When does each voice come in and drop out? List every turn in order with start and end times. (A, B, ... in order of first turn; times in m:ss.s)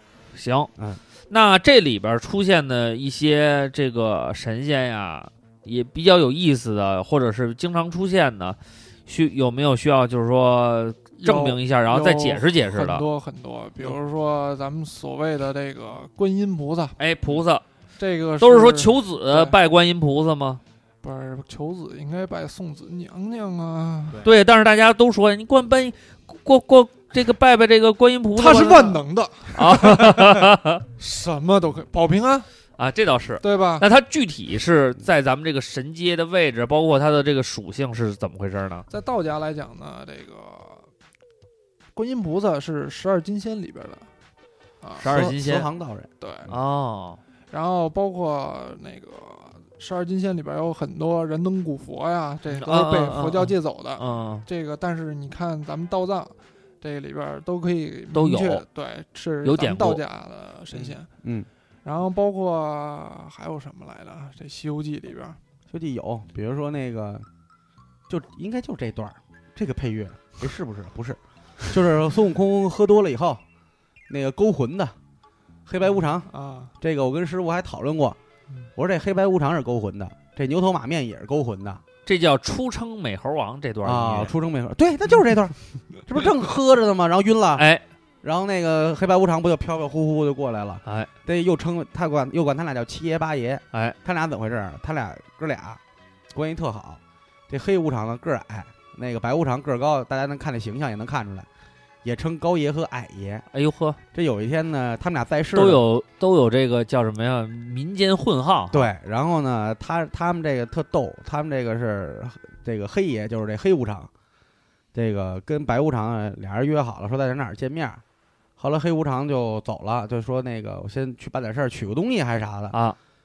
0:00.3-0:00.7 A
0:01.3-0:13.0 A
0:11.2-0:17.0 B
0:17.0-0:17.6 A
0:18.0-0:19.6 B
0:18.4-0:20.6 A
0:21.0-0:24.2 B
0:24.2-0:30.8 A
0:28.4-0:32.5 B
0:32.8-0:38.8 A
0:33.4-0:33.8 B
0:38.9-0:40.9 B
0:41.9-0:44.1 B
0:44.8-0:45.1 B
0:45.0-0:45.7 A
0:45.0-0:46.1 C
0:46.2-0:46.5 B
0:46.5-0:47.2 A
0:47.5-1:01.1 B
0:52.5-0:54.5 A
0:58.1-0:58.6 A
0:59.4-1:00.0 A
1:00.7-1:01.5 C
1:01.8-1:05.4 B
1:05.7-1:07.2 C
1:08.1-1:13.4 C
1:14.1-1:14.9 C
1:15.6-1:16.3 C
1:16.2-1:16.7 B
1:16.8-1:18.2 C
1:18.8-1:21.8 C
1:22.0-1:24.3 A
1:23.8-1:25.5 C
1:26.0-1:27.6 C
1:27.6-1:27.8 A
1:28.2-1:35.8 C
1:30.8-1:31.1 A
1:36.3-1:41.5 C
1:42.0-1:43.4 C
1:43.5-1:44.0 A
1:44.1-1:45.8 C
1:45.5-1:48.9 A
1:48.7-1:54.1 C
1:54.9-1:58.0 C
1:58.6-2:02.8 C